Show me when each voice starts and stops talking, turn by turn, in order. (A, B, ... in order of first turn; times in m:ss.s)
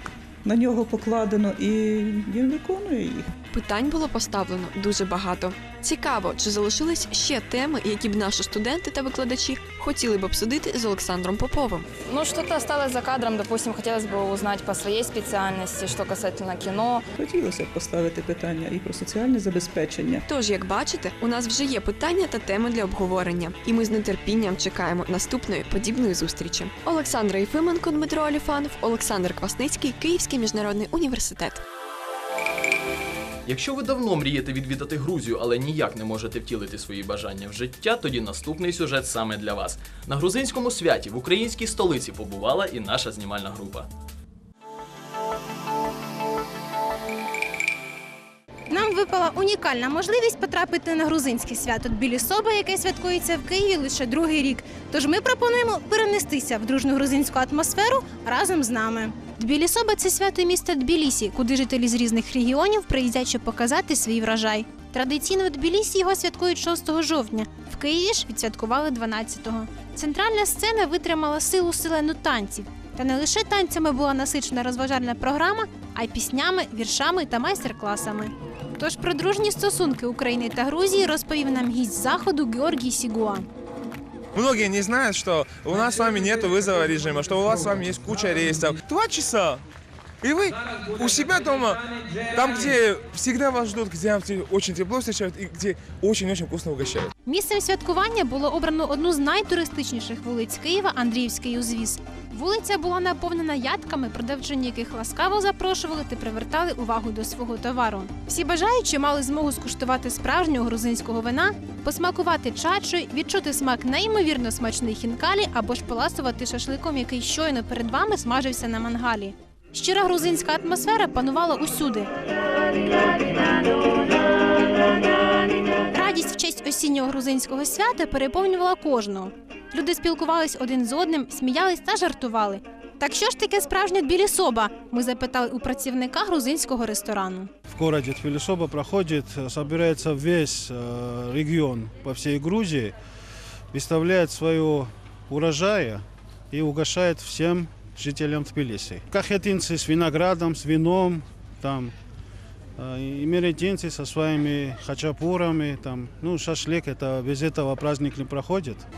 0:00.4-0:03.3 A
0:03.5-0:11.9 B
0:12.0-0:17.0 C
0:17.2-0:20.2 A
0:20.3-0:31.6 B
0:33.4-0:43.9 D
0:48.7-1:23.5 E
1:24.3-1:29.6 F
1:30.2-1:37.1 F
1:37.2-2:02.1 E
2:05.9-2:17.5 E
2:17.7-2:22.9 G
2:23.7-2:31.9 G
2:32.8-2:38.8 G